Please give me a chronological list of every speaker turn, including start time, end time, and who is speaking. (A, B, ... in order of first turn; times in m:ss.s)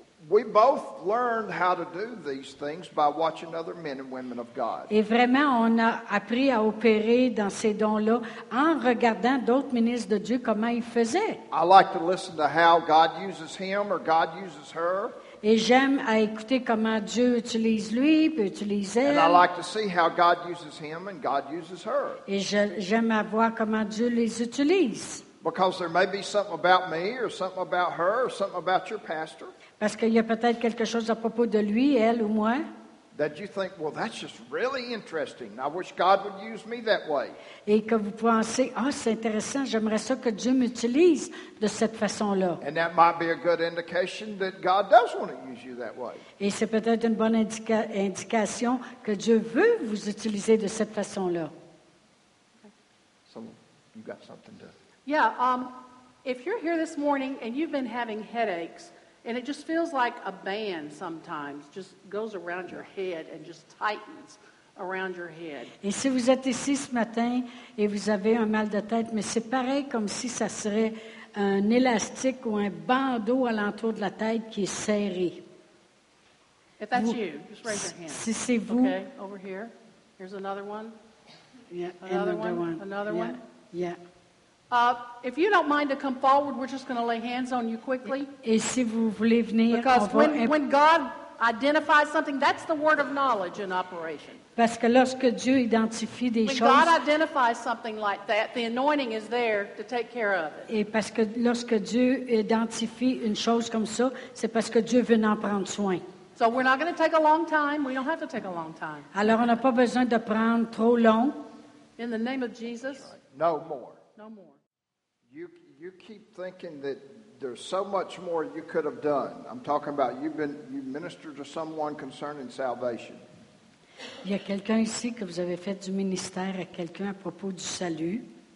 0:00.2-0:04.9 A
0:04.9-0:11.4 B
0:11.5-0:15.1 A
0:15.4-0:19.4 B
0:19.0-0:22.2 A
0:22.3-0:25.2 B
0:25.4-0:29.5 A
0:29.8-0:32.6 B
0:33.1-0:37.4 A
0:37.6-0:42.6 B
0:42.6-0:46.2 A
0:46.4-0:51.5 B
0:53.3-0:54.7 A
0:55.0-0:55.7 C
0:56.2-1:05.7 C
1:05.8-1:15.4 B
1:16.8-1:20.9 C
1:16.9-1:19.0 B
1:21.7-1:24.0 B
1:22.0-1:23.4 C
1:24.7-1:28.3 C
1:28.4-1:30.5 B
1:29.7-1:34.4 C
1:34.6-1:36.9 B
1:36.4-1:40.7 C
1:40.7-1:46.0 B
1:46.4-1:49.1 C
1:49.1-1:51.4 B
1:52.0-1:53.1 C
1:53.0-1:54.0 A
1:54.2-1:54.6 C
1:55.3-2:03.2 A
2:04.2-2:08.2 B